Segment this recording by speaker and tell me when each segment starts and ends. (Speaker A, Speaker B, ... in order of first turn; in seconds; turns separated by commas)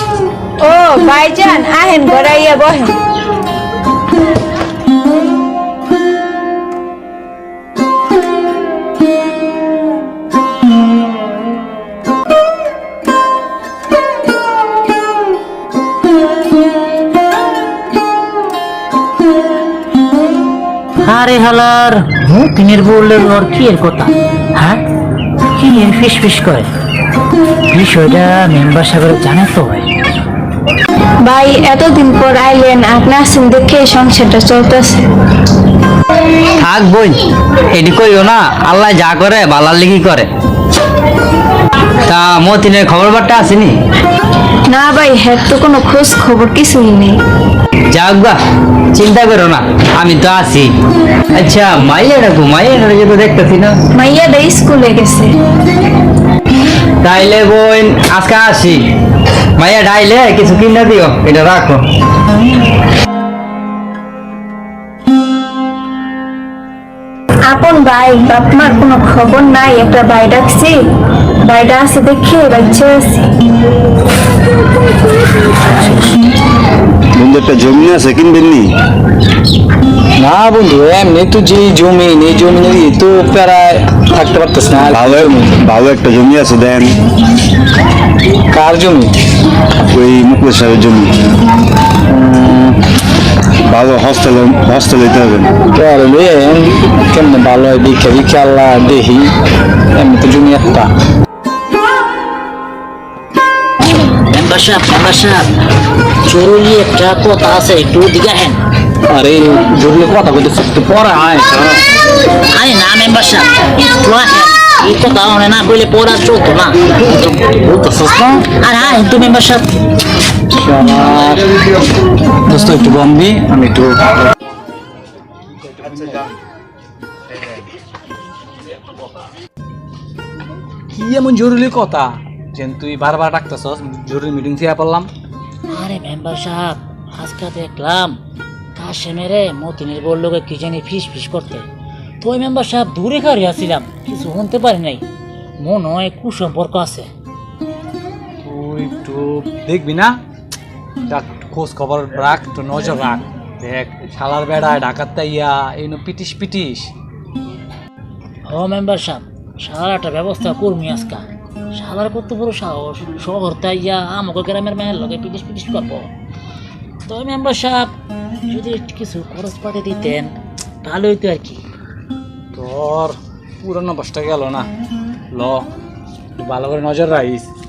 Speaker A: 0.6-2.9, Speaker B: 21.0-24.8, Speaker B: 25.5-26.7, Speaker B: 27.7-29.9, Speaker A: 31.2-35.0, Speaker C: 36.6-37.2, Speaker C: 37.7-40.3, Speaker C: 42.0-43.7, Speaker A: 44.7-47.1, Speaker C: 47.9-48.4, Speaker C: 48.9-50.7, Speaker C: 51.3-53.8, Speaker A: 54.0-55.3, Speaker C: 57.0-58.8, Speaker C: 59.6-61.8, Speaker A: 67.5-70.8, Speaker A: 71.4-73.2, Speaker B: 75.8-76.1, Speaker D: 77.1-78.7, Speaker E: 80.2-85.5, Speaker D: 84.9-87.0, Speaker E: 88.5-89.1, Speaker D: 89.9-91.1, Speaker E: 92.1-92.7, Speaker D: 93.7-95.5, Speaker E: 95.7-99.3, Speaker E: 99.9-100.9, Speaker B: 103.9-105.5, Speaker B: 106.2-108.6, Speaker E: 109.1-111.8, Speaker B: 112.5-119.7, Speaker E: 117.5-118.3, Speaker E: 120.5-121.5, Speaker E: 122.5-124.0, Speaker E: 130.9-135.1, Speaker B: 135.7-138.2, Speaker B: 138.8-141.7, Speaker B: 142.2-145.0, Speaker B: 145.6-147.1, Speaker E: 148.4-150.2, Speaker E: 151.1-156.9, Speaker B: 158.5-166.1, Speaker B: 167.1-167.9, Speaker B: 168.5-170.3, Speaker B: 170.8-171.6, Speaker E: 172.5-174.7, Speaker E: 175.3-175.7, Speaker E: 176.3-177.5